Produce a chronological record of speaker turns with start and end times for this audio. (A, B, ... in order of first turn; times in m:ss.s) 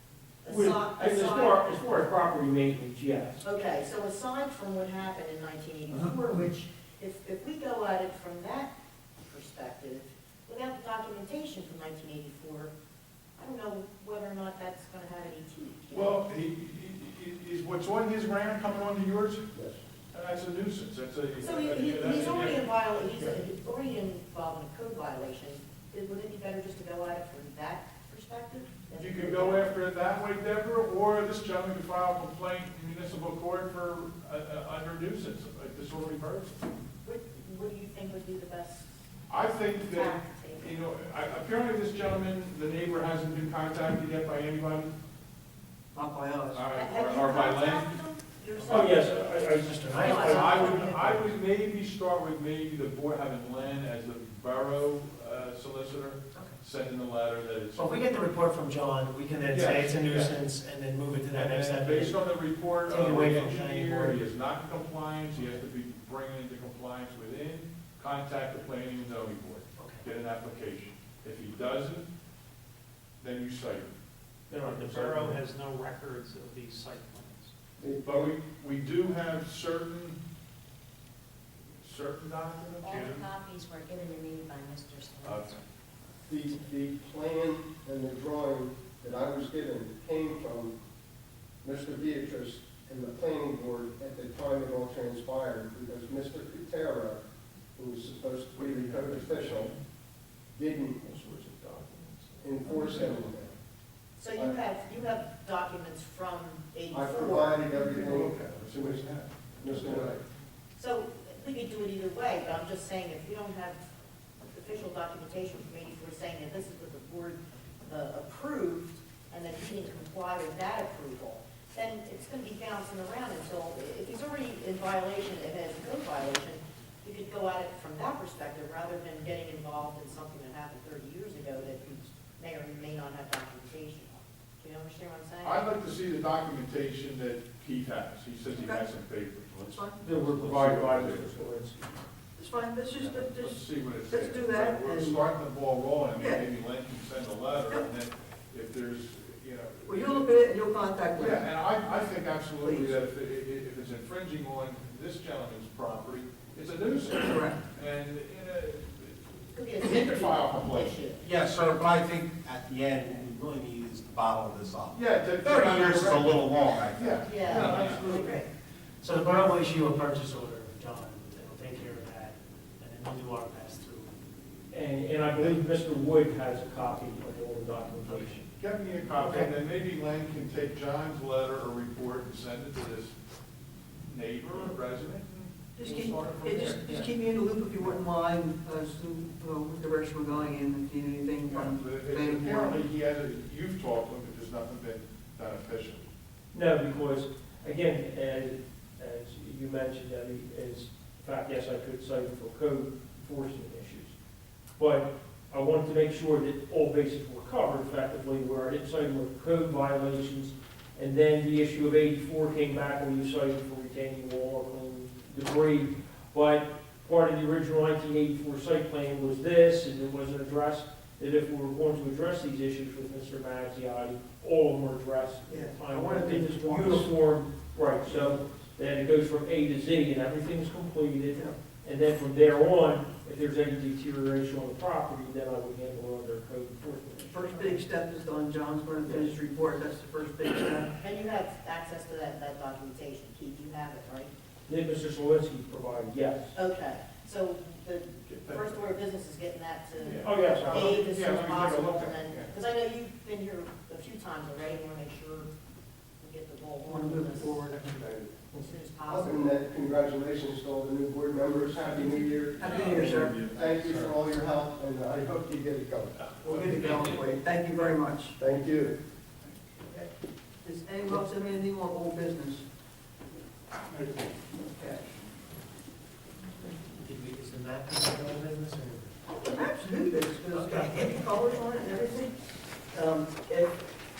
0:00.4-0:01.8 A
0:00.5-0:03.4 B
0:03.4-0:08.7 A
0:09.2-0:12.7 A
0:13.4-0:16.2 A
0:15.9-0:19.6 C
0:20.1-0:23.4 C
0:21.4-0:29.7 A
0:28.9-0:36.6 C
0:37.0-0:39.0 A
0:39.3-0:45.0 C
0:39.8-0:40.8 A
0:45.9-0:46.6 D
0:46.5-0:48.0 C
0:46.7-0:49.2 A
0:48.7-0:50.8 B
0:49.5-0:51.2 E
0:50.0-0:51.1 A
0:50.3-0:58.0 C
0:57.7-1:02.2 E
0:59.5-1:00.4 C
1:01.3-1:12.1 C
1:02.8-1:04.3 E
1:09.8-1:10.0 E
1:13.2-1:13.9 C
1:14.5-1:15.4 B
1:14.5-1:17.5 F
1:17.8-1:18.3 G
1:18.0-1:20.2 C
1:21.8-1:23.0 C
1:22.8-1:25.6 H
1:22.9-1:23.2 F
1:25.2-1:25.6 C
1:26.3-1:30.8 G
1:31.6-1:37.2 G
1:37.8-1:39.8 G
1:38.6-1:39.8 F
1:40.5-1:41.0 G
1:41.0-1:43.1 F
1:42.4-1:43.6 G
1:44.2-1:47.7 A
1:46.9-1:49.1 G
1:47.7-1:50.2 C
1:49.6-1:50.2 G
1:50.8-1:53.8 A
1:54.4-2:15.6 A
2:15.4-2:21.4 C
2:18.5-2:18.8 D
2:19.6-2:20.0 D
2:20.0-2:22.0 B
2:22.4-2:25.2 D
2:23.0-2:30.3 C
2:26.1-2:26.4 D
2:29.8-2:31.4 D
2:31.2-2:41.1 C
2:32.6-2:33.0 D
2:37.1-2:37.6 D
2:39.5-2:41.2 A
2:41.2-2:48.2 I
2:44.9-2:48.4 C
2:47.2-2:48.5 A
2:49.0-2:54.1 E
2:54.7-2:58.4 B
2:58.1-2:58.4 E
2:58.6-3:03.1 C
2:59.2-2:59.4 E
3:04.0-3:07.1 C
3:05.8-3:12.8 D
3:11.4-3:16.1 C
3:16.5-3:24.1 B
3:24.8-3:57.8 B
3:45.5-3:47.2 D
3:48.0-3:48.5 D
3:57.2-4:00.9 D
3:59.0-3:59.3 B
4:01.0-4:04.3 A
4:04.7-4:06.5 B
4:06.5-4:15.5 A
4:08.2-4:08.9 C
4:10.0-4:12.5 C
4:10.2-4:11.0 B
4:16.2-4:17.7 A
4:16.8-4:18.4 D
4:18.5-4:19.6 A
4:19.1-4:26.1 G
4:21.8-4:22.1 C
4:22.6-4:23.5 D
4:22.6-4:24.1 C
4:26.2-4:27.2 C
4:26.4-4:28.4 D
4:28.4-4:29.0 G
4:29.8-4:30.1 D
4:30.6-4:32.6 D
4:34.5-4:35.1 D
4:37.0-4:39.1 E
4:39.3-4:42.4 D
4:42.9-4:43.8 D